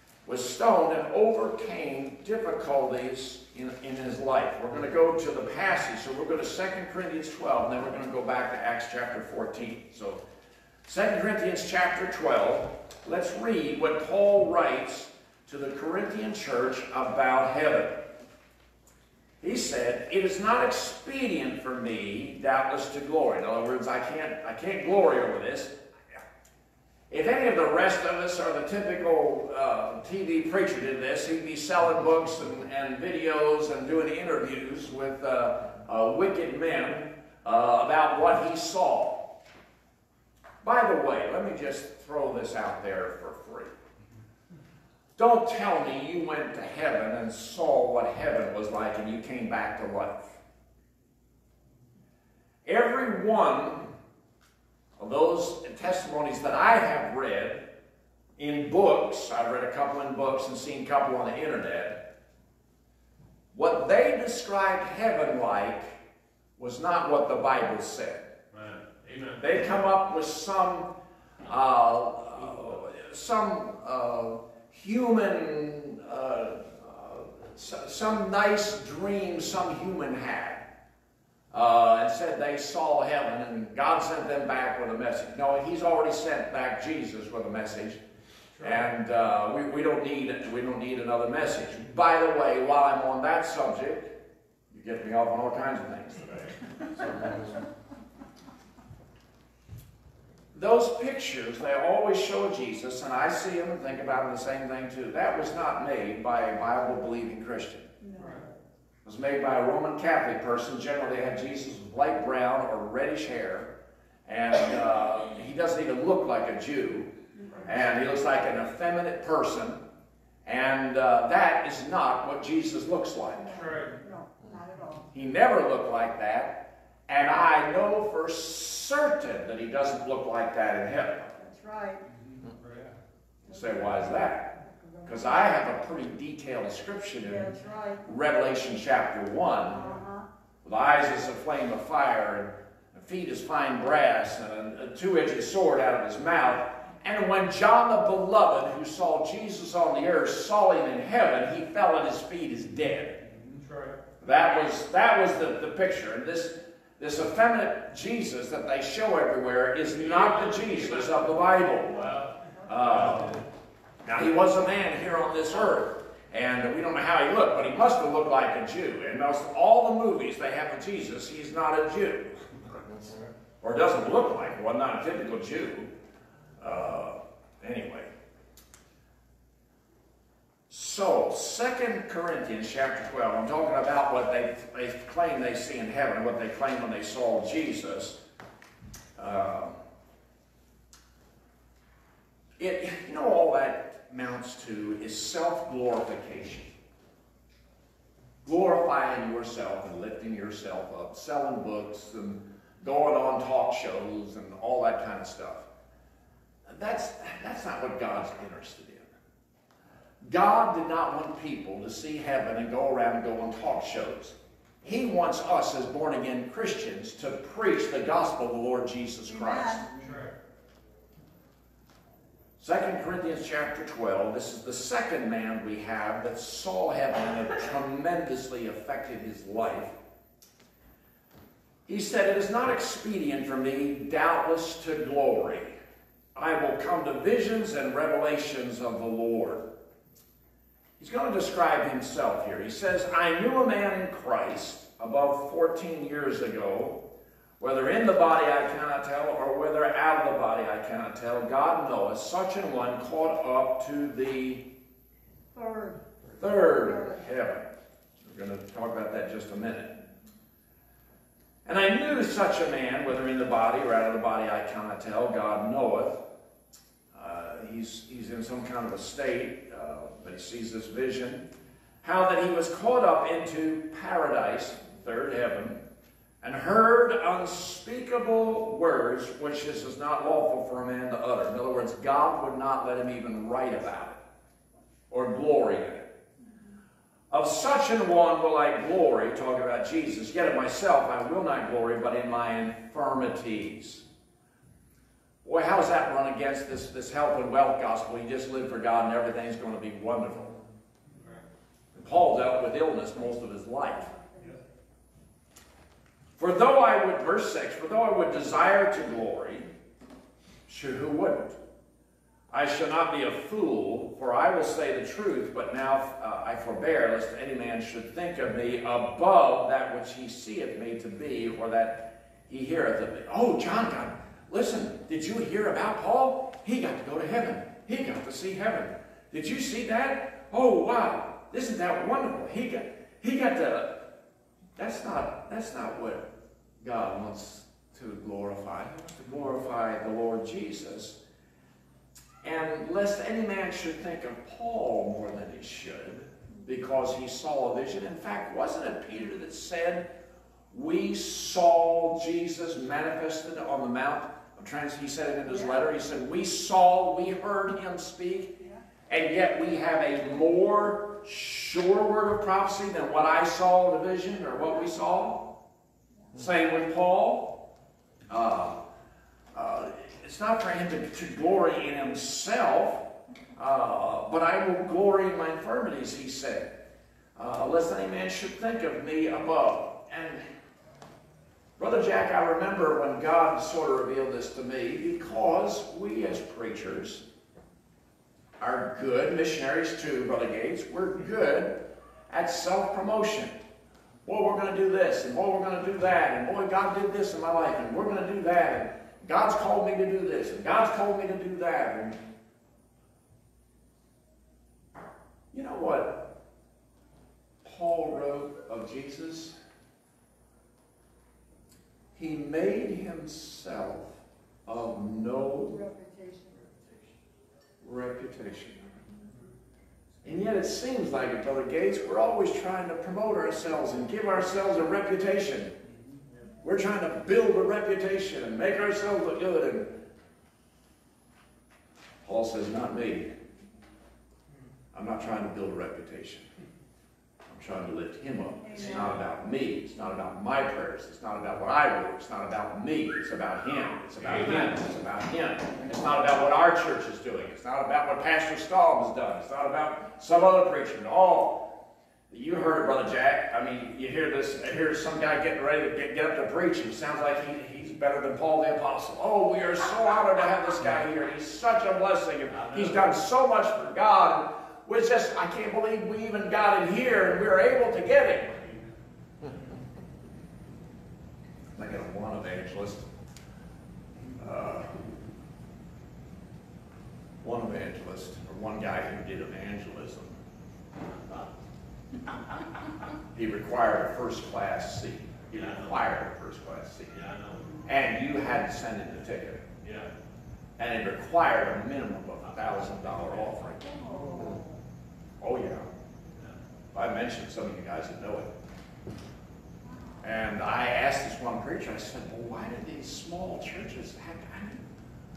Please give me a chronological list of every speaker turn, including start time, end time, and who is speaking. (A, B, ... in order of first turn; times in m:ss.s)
0:00.2-0:10.2 A
0:10.8-0:18.0 A
0:19.4-0:25.7 A
0:27.1-0:39.3 A
0:40.6-0:43.7 A
0:45.2-0:50.4 A
0:52.6-0:53.9 A
0:55.0-0:57.6 A
0:58.4-1:02.0 A
1:03.5-1:06.0 A
1:06.6-1:08.2 A
1:08.5-1:09.4 B
1:09.4-1:10.9 A
1:11.4-1:20.6 A
1:21.5-1:28.0 A
1:28.6-1:28.8 B
1:28.6-1:34.1 A
1:34.7-1:36.4 A
1:40.5-1:47.9 A
1:48.0-1:48.4 C
1:48.2-1:48.4 B
1:49.0-1:53.7 A
1:54.2-1:57.1 A
1:57.4-1:57.7 C
1:57.6-1:59.8 A
2:00.4-2:03.5 A
2:03.3-2:05.0 C
2:03.5-2:04.0 B
2:05.1-2:11.3 A
2:11.4-2:12.0 C
2:12.3-2:12.9 B
2:13.5-2:14.5 A
2:14.6-2:15.4 C
2:15.0-2:17.5 A
2:17.2-2:18.0 C
2:18.0-2:19.8 A
2:19.7-2:20.2 C
2:20.6-2:33.2 A
2:33.3-2:34.0 B
2:34.2-2:42.1 A
2:39.9-2:41.2 B
2:41.9-2:43.4 B
2:42.6-2:43.4 A
2:44.0-2:52.4 A
2:53.6-2:55.9 A
2:56.6-2:58.1 A
3:00.7-3:08.2 A
3:09.2-3:09.8 A
3:12.6-3:16.7 A
3:18.4-3:25.6 A
3:26.7-3:29.1 A
3:30.2-3:39.8 A
3:39.3-3:39.8 C
3:39.9-3:40.3 B
3:42.6-3:50.0 A
3:51.9-3:55.7 A
3:56.3-3:59.6 A
4:01.0-4:07.0 A
4:07.6-4:14.6 A
4:15.5-4:17.2 C
4:16.4-4:17.7 A
4:18.2-4:19.9 A
4:21.6-4:26.2 A
4:27.1-4:31.4 A
4:32.0-4:35.8 A
4:36.4-4:44.2 A
4:45.1-4:46.1 A
4:47.3-4:54.0 A
4:55.4-5:00.6 A
5:01.1-5:01.4 B
5:01.9-5:04.1 A
5:04.0-5:04.6 C
5:06.4-5:09.7 A
5:10.7-5:11.6 A
5:12.5-5:34.0 A
5:34.8-5:36.3 A
5:36.8-5:41.2 A
5:42.4-5:50.0 A
5:50.7-5:58.6 A
5:59.1-6:05.5 A
6:06.3-6:07.6 A
6:08.3-6:08.8 A
6:09.5-6:13.0 A
6:13.6-6:16.7 A
6:17.4-6:20.4 A
6:21.8-6:27.2 A
6:28.6-6:33.6 A
6:34.2-6:42.2 A
6:45.5-6:46.3 A
6:47.6-6:49.5 A
6:52.2-6:55.8 A
6:55.7-6:56.6 C
6:57.8-6:58.9 A
7:00.2-7:05.7 A
7:06.6-7:10.0 A
7:12.2-7:13.3 A
7:14.9-7:16.4 A
7:17.5-7:31.7 A
7:18.6-7:19.2 C
7:24.3-7:24.6 B
7:32.3-7:48.6 A
7:42.6-7:42.9 B
7:51.8-7:53.1 A
7:54.4-7:54.9 A
7:57.4-8:00.4 A
8:03.3-8:07.2 A
8:05.5-8:05.9 B
8:07.1-8:07.7 B
8:07.8-8:09.6 A
8:09.8-8:10.1 B
8:10.8-8:14.0 A
8:12.7-8:13.4 B
8:13.9-8:14.8 C
8:15.4-8:15.9 A
8:16.9-8:18.5 A
8:19.8-8:20.2 C
8:20.2-8:24.8 A